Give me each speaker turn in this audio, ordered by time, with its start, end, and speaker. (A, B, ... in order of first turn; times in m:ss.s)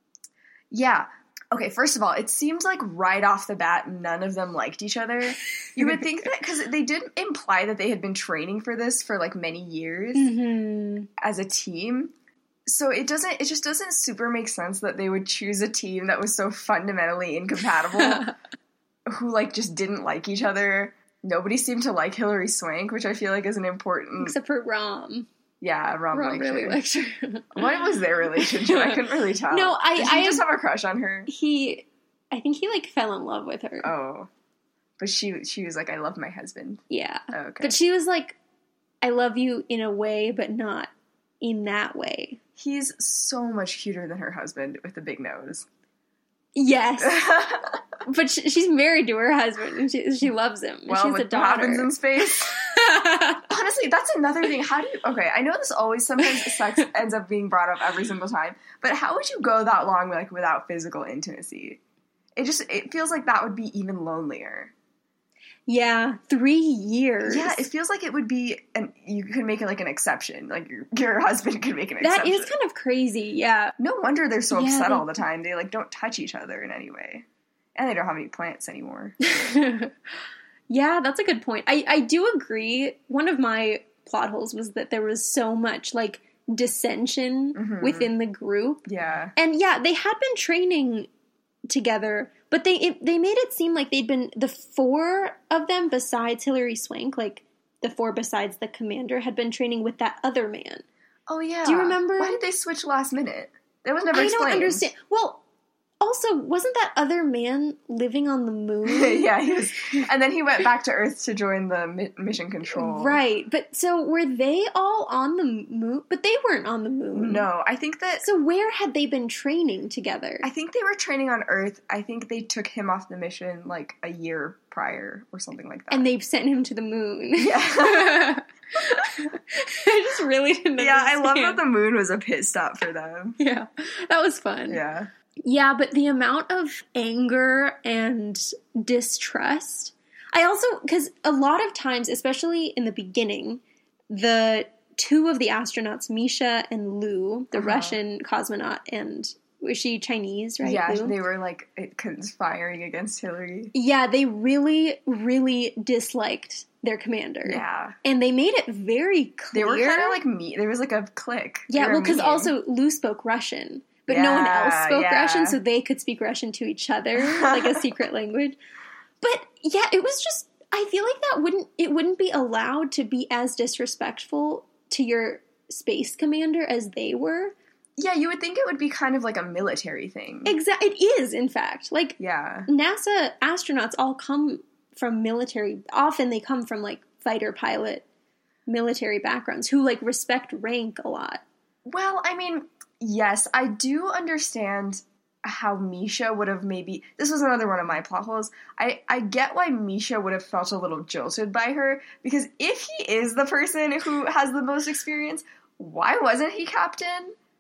0:00.7-0:10.3 A
0:05.8-0:06.3 B
0:10.2-0:11.1 B
0:11.2-0:12.1 A
0:12.7-0:18.3 A
0:18.0-0:18.3 B
0:19.1-0:24.4 A
0:24.2-0:25.3 B
0:25.6-0:26.8 A
0:26.1-0:30.4 B
0:27.5-0:31.3 A
0:31.3-0:33.9 B
0:33.8-0:34.3 A
0:35.0-0:37.8 A
0:36.9-0:38.4 B
0:39.0-0:40.9 B
0:41.4-0:42.4 B
0:42.6-0:45.7 A
0:46.6-0:47.2 B
0:47.0-0:47.8 A
0:48.0-0:51.9 B
0:50.9-0:52.6 A
0:52.6-0:53.4 B
0:53.5-1:01.8 A
0:56.2-0:56.8 B
1:02.4-1:04.7 A
1:05.7-1:07.7 B
1:07.2-1:12.5 A
1:12.0-1:13.8 B
1:13.8-1:19.2 A
1:14.5-1:15.1 B
1:19.2-1:19.9 B
1:20.7-1:28.8 B
1:27.6-1:28.1 A
1:28.9-1:29.3 A
1:29.4-1:31.1 B
1:31.7-1:40.8 B
1:41.3-1:44.9 A
1:41.6-1:42.4 B
1:44.1-1:45.4 B
1:46.0-1:49.3 B
1:48.8-1:53.2 A
1:52.7-1:57.5 B
1:57.1-1:58.2 A
1:58.2-2:00.5 B
2:00.4-2:06.1 A
2:05.9-2:11.6 B
2:07.4-2:09.3 A
2:10.8-2:13.4 A
2:13.4-2:14.8 B
2:14.7-2:15.1 A
2:15.4-2:31.2 B
2:27.5-2:28.0 A
2:30.6-2:33.7 A
2:33.7-2:40.2 B
2:37.4-2:38.0 A
2:39.5-2:42.5 A
2:41.7-2:48.6 B
2:44.1-2:45.6 A
2:47.2-2:47.9 A
2:49.2-2:57.5 B
2:58.0-3:00.6 A
3:00.4-3:08.0 B
3:02.2-3:02.7 A
3:08.7-3:11.4 B
3:11.9-3:27.4 A